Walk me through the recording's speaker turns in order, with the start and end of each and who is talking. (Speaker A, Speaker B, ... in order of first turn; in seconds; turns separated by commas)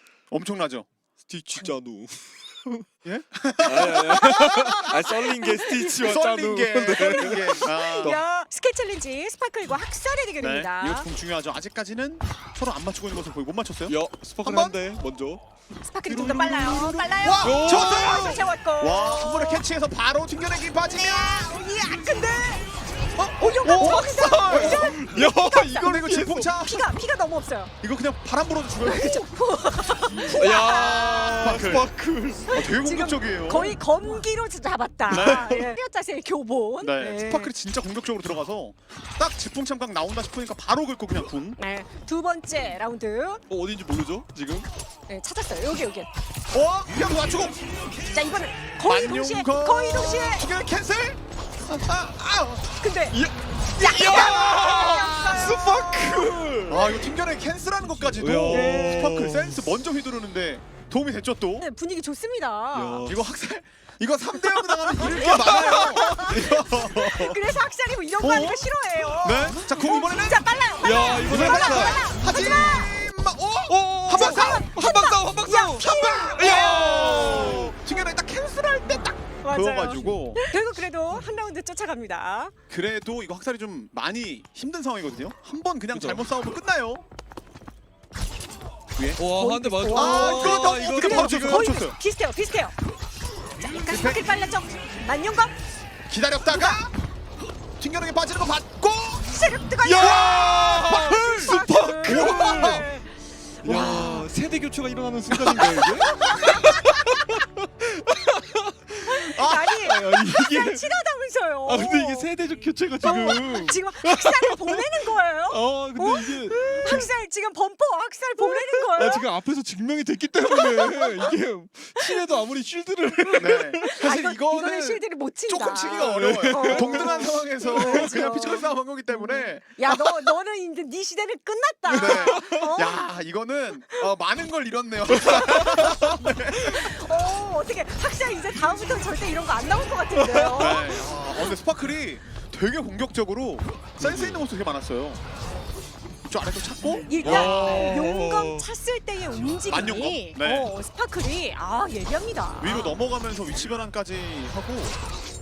Speaker A: 0.3-0.9, Speaker B: 1.3-2.9, Speaker A: 3.0-5.0, Speaker B: 3.6-8.2, Speaker C: 4.4-5.1, Speaker A: 5.8-8.2, Speaker C: 7.0-11.1, Speaker A: 10.4-14.8, Speaker B: 13.9-15.4, Speaker C: 15.8-19.7, Speaker A: 16.1-21.5, Speaker B: 16.1-16.6, Speaker B: 17.4-18.4, Speaker C: 20.9-22.7, Speaker A: 23.1-25.0, Speaker C: 23.4-26.0, Speaker B: 23.6-26.5, Speaker A: 25.6-26.9, Speaker C: 26.5-27.7, Speaker A: 27.8-29.3, Speaker C: 28.9-31.7, Speaker B: 30.1-32.6, Speaker A: 31.4-31.9, Speaker C: 32.5-37.5, Speaker A: 32.5-33.8, Speaker A: 35.1-35.7, Speaker B: 35.1-35.7, Speaker A: 36.8-41.6, Speaker C: 41.6-43.4, Speaker B: 43.5-44.7, Speaker C: 45.1-46.1, Speaker A: 46.5-47.6, Speaker C: 48.1-50.5, Speaker A: 48.8-52.7, Speaker C: 52.8-53.2, Speaker B: 53.1-57.1, Speaker C: 53.7-56.3, Speaker A: 56.7-61.7, Speaker B: 58.2-59.6, Speaker C: 58.5-59.0, Speaker C: 61.6-63.1, Speaker B: 62.7-63.2, Speaker A: 63.0-67.4, Speaker B: 64.4-66.2, Speaker C: 65.1-73.0, Speaker A: 68.2-68.6, Speaker A: 69.2-70.5, Speaker B: 70.8-72.1, Speaker A: 71.2-74.7, Speaker B: 73.7-77.7, Speaker C: 74.1-77.6, Speaker A: 75.8-80.4, Speaker C: 79.4-82.5, Speaker A: 82.7-87.0, Speaker B: 85.9-86.2, Speaker A: 89.0-89.2, Speaker B: 89.2-91.7, Speaker C: 89.3-92.8, Speaker A: 89.9-92.0, Speaker C: 93.6-95.6, Speaker A: 93.7-94.3, Speaker A: 96.1-96.9, Speaker C: 96.5-96.8, Speaker A: 97.8-99.4, Speaker C: 99.3-104.3, Speaker B: 99.8-102.8, Speaker A: 99.9-102.9, Speaker B: 103.6-109.2, Speaker A: 105.3-106.6, Speaker C: 106.1-106.8, Speaker C: 109.0-112.3, Speaker A: 109.3-109.9, Speaker B: 109.8-110.9, Speaker B: 111.7-114.8, Speaker C: 113.0-119.3, Speaker B: 115.5-117.0, Speaker A: 116.8-117.1, Speaker B: 118.4-124.1, Speaker C: 120.4-121.4, Speaker A: 123.4-130.3, Speaker C: 123.8-133.1, Speaker B: 126.0-128.5, Speaker B: 131.9-132.7, Speaker A: 131.9-136.9, Speaker C: 135.1-141.1, Speaker B: 140.2-141.0, Speaker A: 140.6-145.2, Speaker B: 144.0-144.4, Speaker A: 146.3-147.6, Speaker C: 147.1-152.9, Speaker B: 147.2-148.7, Speaker A: 149.7-150.7, Speaker A: 152.6-155.0